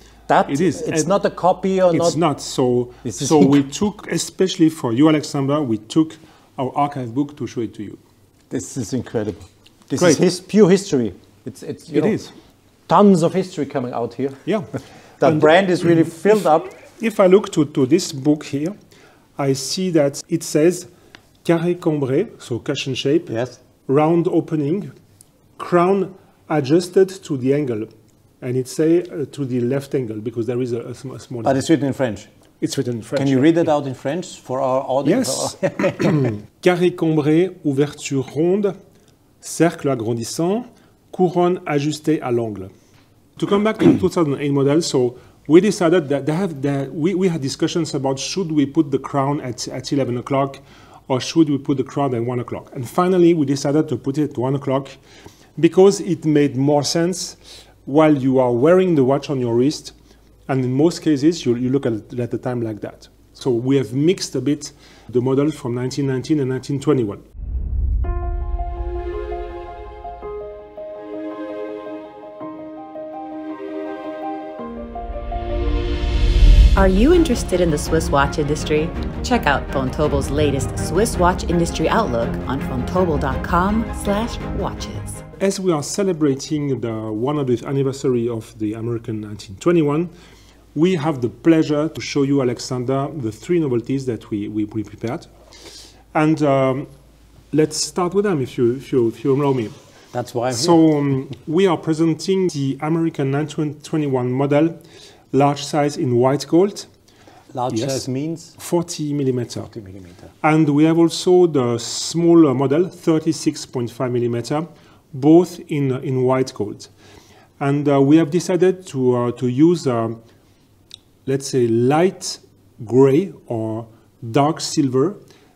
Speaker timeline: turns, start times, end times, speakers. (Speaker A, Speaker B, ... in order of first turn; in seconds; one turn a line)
Speaker A: 0.3-2.2
Speaker B: 0.5-1.1
Speaker B: 1.9-8.0
Speaker A: 3.0-3.6
Speaker A: 8.5-12.2
Speaker B: 9.9-10.2
Speaker B: 11.9-12.3
Speaker A: 12.9-14.4
Speaker A: 15.2-16.7
Speaker B: 15.2-16.4
Speaker B: 17.0-18.7
Speaker B: 19.4-20.9
Speaker B: 21.4-23.3
Speaker A: 23.3-23.6
Speaker B: 23.9-24.9
Speaker B: 25.6-27.9
Speaker B: 28.4-31.6
Speaker A: 31.4-32.3
Speaker B: 32.6-33.7
Speaker A: 33.1-36.3
Speaker B: 35.0-38.7
Speaker B: 39.4-42.7
Speaker B: 43.4-55.0
Speaker B: 55.6-59.9
Speaker B: 60.5-67.2
Speaker C: 76.8-85.2
Speaker B: 85.4-90.1
Speaker B: 90.7-95.3
Speaker B: 96.1-96.9
Speaker B: 97.5-99.7
Speaker A: 100.1-100.8
Speaker B: 100.5-104.8
Speaker B: 105.3-106.9
Speaker A: 107.5-108.6
Speaker B: 107.7-108.0
Speaker B: 108.6-109.7
Speaker A: 109.7-110.3
Speaker B: 110.4-116.9
Speaker B: 117.6-120.2
Speaker B: 121.2-125.2